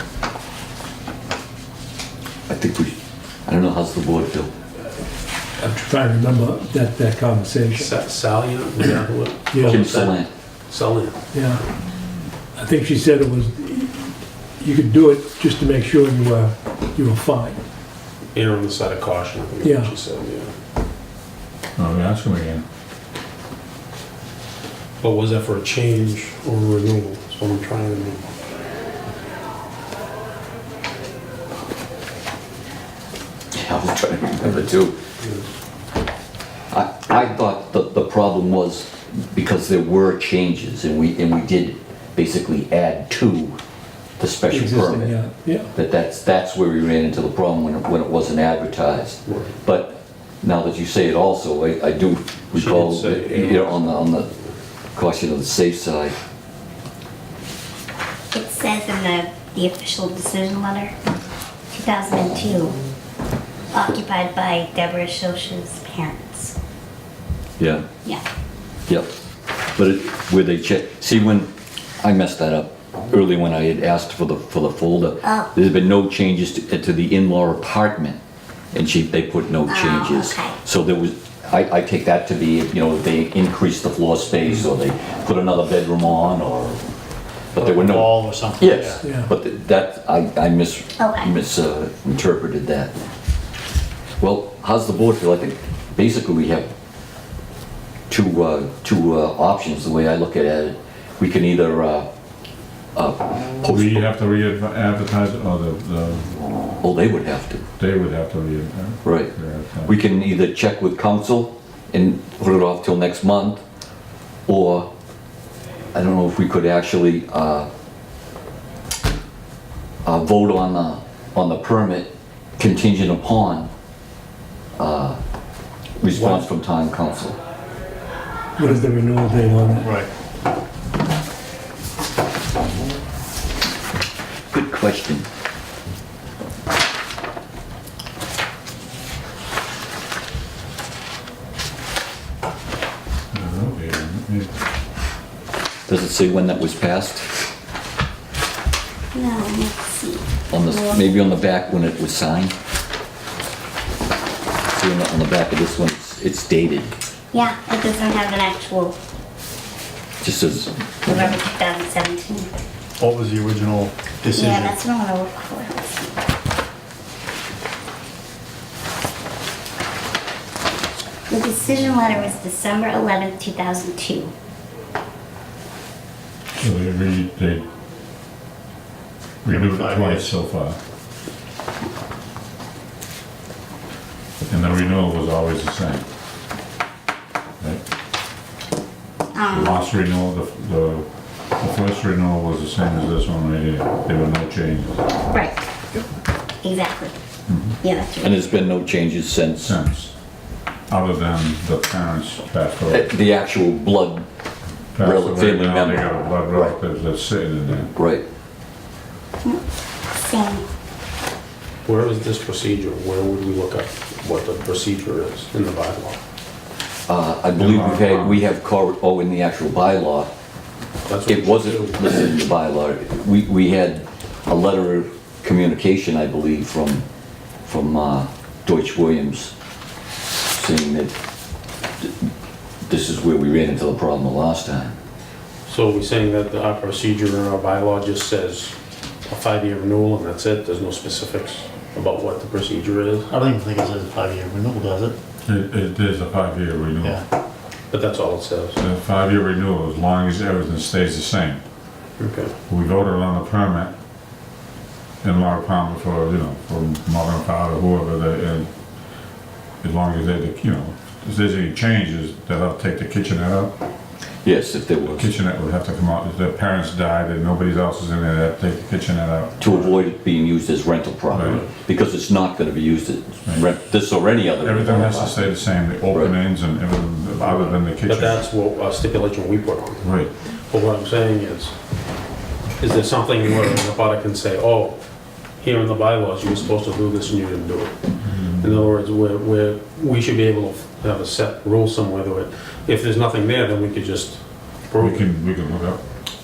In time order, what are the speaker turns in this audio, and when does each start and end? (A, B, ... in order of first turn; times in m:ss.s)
0:02.5-0:04.5 A
0:05.6-0:07.9 B
0:07.8-0:11.2 C
0:09.5-0:09.8 B
0:09.6-0:10.3 A
0:11.3-0:11.7 B
0:12.6-0:17.6 B
0:18.3-0:20.5 C
0:19.6-0:19.9 B
0:21.8-0:22.6 D
0:25.0-0:28.2 C
0:33.5-0:35.0 A
0:36.7-0:43.6 A
0:44.2-0:45.2 A
0:44.5-0:45.7 B
0:45.8-0:54.3 A
0:49.3-0:49.6 C
0:52.5-0:54.3 C
0:55.0-0:56.2 A
0:58.3-1:01.0 E
1:01.7-1:02.8 E
1:03.7-1:06.6 E
1:07.6-1:07.9 A
1:09.8-1:11.5 A
1:12.0-1:18.2 A
1:15.2-1:15.5 E
1:18.7-1:26.8 A
1:19.7-1:20.6 E
1:27.5-1:32.9 A
1:27.6-1:29.0 F
1:29.0-1:29.3 B
1:31.0-1:31.3 E
1:34.2-1:36.7 A
1:38.1-1:42.1 A
1:43.0-1:44.0 A
1:43.6-1:46.3 D
1:46.8-1:47.6 A
1:47.8-1:49.9 D
1:49.0-1:49.3 A
1:49.8-1:53.6 A
1:54.5-1:54.9 A
1:55.9-1:57.7 A
2:00.0-2:03.7 A
2:04.8-2:05.2 A
2:06.0-2:07.4 A
2:08.6-2:10.0 B
2:09.8-2:10.1 F
2:14.5-2:15.3 A
2:23.3-2:24.5 D
2:25.9-2:27.3 A
2:29.1-2:31.2 E
2:30.5-2:32.5 A
2:34.7-2:36.9 A
2:37.3-2:39.0 E
2:40.2-2:40.7 A
2:41.1-2:42.5 E
2:43.0-2:44.8 F
2:44.3-2:46.1 E
2:51.3-2:54.3 E
2:56.6-2:57.7 D
2:59.4-3:00.8 D
2:59.5-3:00.3 F
3:04.4-3:06.0 D
3:09.3-3:09.9 E
3:09.5-3:11.1 D
3:11.6-3:15.0 D
3:15.3-3:15.6 E
3:16.6-3:17.2 E
3:17.5-3:17.8 D
3:17.8-3:18.4 E
3:18.2-3:19.7 A
3:19.6-3:20.1 D
3:20.9-3:23.1 D
3:22.9-3:24.2 A
3:25.0-3:27.9 D
3:25.0-3:26.7 A
3:28.0-3:28.2 A
3:29.4-3:30.7 E
3:31.8-3:36.2 C
3:37.1-3:40.3 A
3:37.6-3:38.4 D
3:41.1-3:42.1 C
3:41.3-3:47.0 A
3:47.6-3:49.5 A
3:50.5-3:51.1 A
3:52.9-3:55.0 A
3:55.7-3:58.8 C
3:59.3-4:03.3 C
4:03.3-4:05.2 F
4:05.4-4:07.2 D
4:07.9-4:08.8 C
4:08.8-4:11.6 D
4:12.2-4:12.6 C
4:12.7-4:13.9 D
4:15.2-4:18.7 D
4:19.8-4:23.7 D
4:24.4-4:25.3 A
4:25.1-4:29.8 D
4:29.6-4:35.5 A
4:31.3-4:31.6 D
4:34.6-4:38.4 D
4:37.4-4:41.7 C
4:40.0-4:40.3 D
4:42.8-4:45.0 C
4:45.6-4:48.0 C
4:48.2-4:48.8 D
4:48.6-4:55.3 C
4:55.0-4:56.0 D